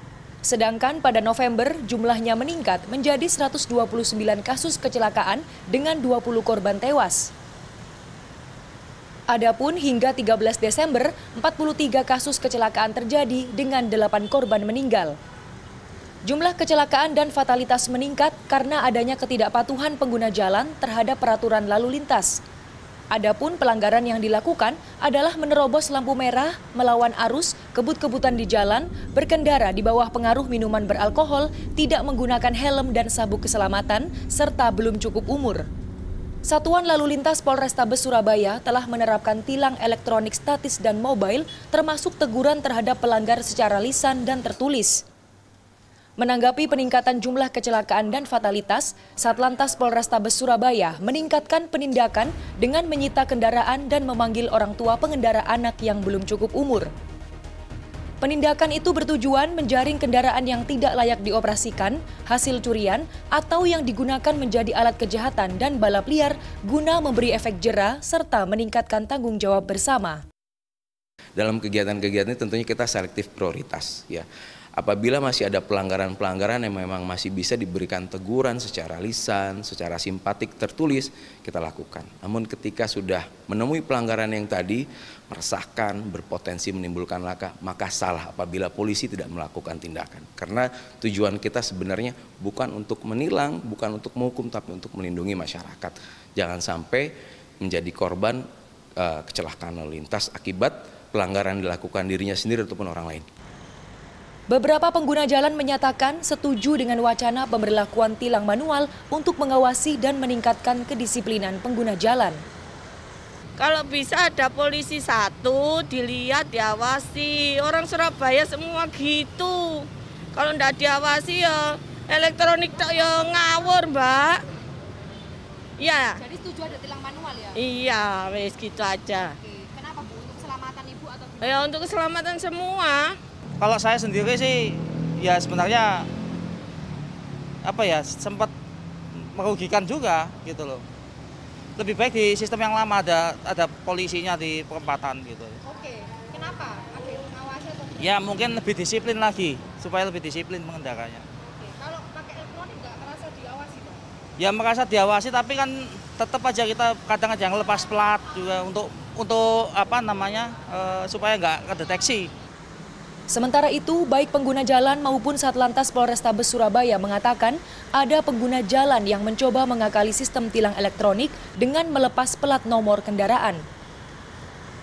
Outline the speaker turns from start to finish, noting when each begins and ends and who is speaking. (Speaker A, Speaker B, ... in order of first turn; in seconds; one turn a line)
Speaker A: 0.4-7.3
Speaker A: 9.3-15.2
Speaker A: 16.2-22.4
Speaker A: 23.1-35.7
Speaker A: 36.4-45.0
Speaker A: 46.2-56.9
Speaker A: 58.2-70.2
Speaker B: 71.4-98.4
Speaker B: 99.0-103.2
Speaker A: 104.5-112.4
Speaker C: 113.6-124.4
Speaker C: 125.8-126.2
Speaker D: 126.2-127.6
Speaker C: 127.5-129.3
Speaker D: 129.4-131.6
Speaker C: 131.4-133.2
Speaker E: 133.6-136.1
Speaker E: 137.6-138.5
Speaker E: 139.1-140.8
Speaker E: 141.8-145.6
Speaker D: 145.6-148.2
Speaker E: 148.0-151.2
Speaker D: 151.5-154.0
Speaker E: 154.4-162.3
Speaker A: 163.3-173.6